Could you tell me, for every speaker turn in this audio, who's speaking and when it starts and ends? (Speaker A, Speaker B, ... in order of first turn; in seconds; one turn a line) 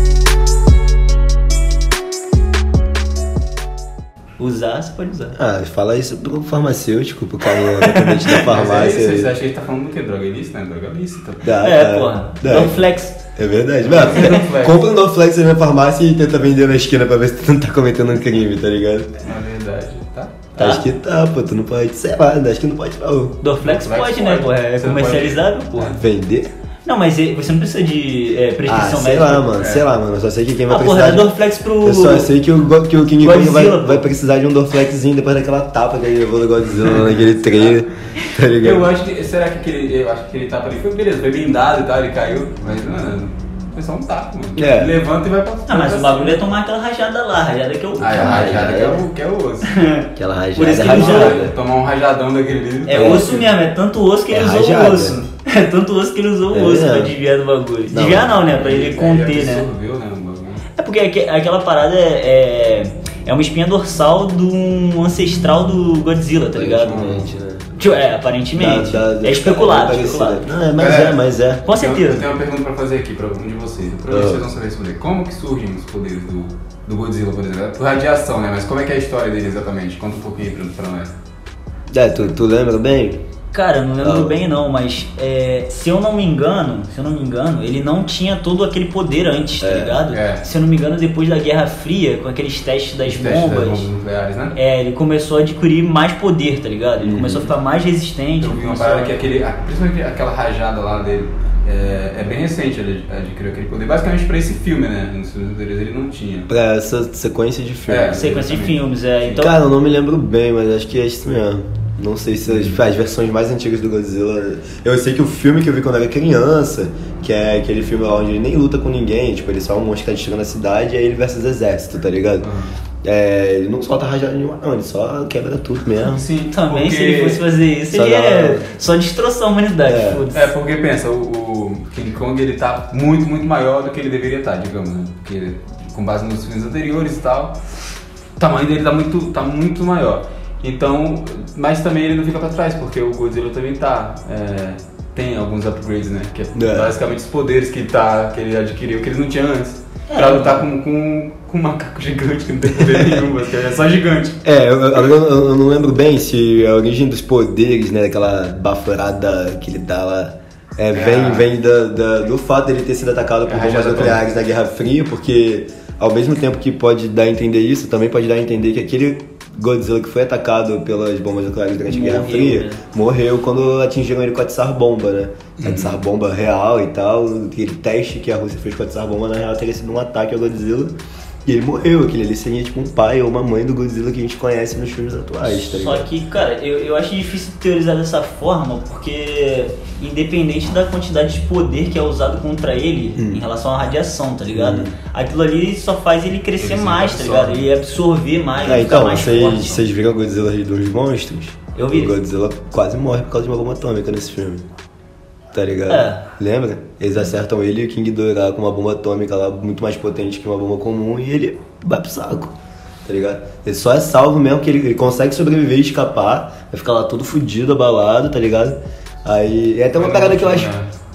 Speaker A: 4.4-5.4
Speaker B: 5.4-9.3
Speaker A: 7.6-8.4
Speaker C: 8.3-11.5
Speaker B: 11.4-19.1
Speaker A: 11.6-13.2
Speaker C: 13.8-14.8
Speaker C: 19.2-20.5
Speaker A: 20.6-20.8
Speaker B: 20.6-23.4
Speaker A: 23.4-26.0
Speaker C: 23.6-26.0
Speaker B: 26.0-26.5
Speaker A: 26.9-29.5
Speaker B: 28.7-31.3
Speaker C: 29.6-29.9
Speaker A: 30.7-32.3
Speaker B: 31.8-38.9
Speaker A: 33.2-34.1
Speaker C: 36.8-37.8
Speaker C: 38.6-46.4
Speaker B: 44.6-45.0
Speaker A: 45.7-48.8
Speaker B: 48.0-49.0
Speaker C: 48.0-49.8
Speaker A: 49.6-51.4
Speaker B: 50.2-51.5
Speaker C: 50.8-53.5
Speaker A: 52.9-59.7
Speaker B: 53.0-53.3
Speaker B: 54.3-55.2
Speaker B: 56.5-57.1
Speaker B: 57.9-58.4
Speaker C: 58.4-60.6
Speaker A: 60.8-67.2
Speaker B: 66.5-67.8
Speaker C: 66.9-67.2
Speaker A: 67.8-70.9
Speaker B: 68.5-71.6
Speaker C: 70.8-81.1
Speaker A: 71.7-72.3
Speaker B: 74.1-74.5
Speaker B: 81.9-83.2
Speaker A: 83.5-93.9
Speaker B: 84.0-84.3
Speaker B: 89.6-90.0
Speaker C: 90.1-90.4
Speaker C: 93.1-94.5
Speaker A: 94.5-99.2
Speaker B: 97.0-97.5
Speaker C: 98.4-106.5
Speaker B: 106.5-108.4
Speaker C: 107.9-108.8
Speaker A: 108.1-109.6
Speaker B: 109.3-122.5
Speaker C: 112.5-112.8
Speaker C: 122.4-122.8
Speaker B: 123.0-126.2
Speaker C: 126.0-127.4
Speaker A: 126.5-130.5
Speaker B: 127.9-128.7
Speaker B: 129.9-130.2
Speaker C: 130.3-137.6
Speaker C: 138.4-154.4
Speaker B: 146.6-147.0
Speaker A: 150.1-150.6
Speaker B: 154.4-180.9
Speaker C: 160.9-161.5
Speaker C: 163.5-164.2
Speaker A: 171.9-172.8
Speaker C: 175.6-176.0
Speaker B: 181.4-186.1
Speaker A: 185.4-199.8
Speaker B: 193.2-193.4
Speaker B: 194.5-194.9
Speaker C: 196.6-197.7
Speaker B: 198.6-204.7
Speaker A: 201.8-202.1
Speaker B: 205.5-220.7
Speaker A: 205.9-206.3
Speaker C: 219.9-220.9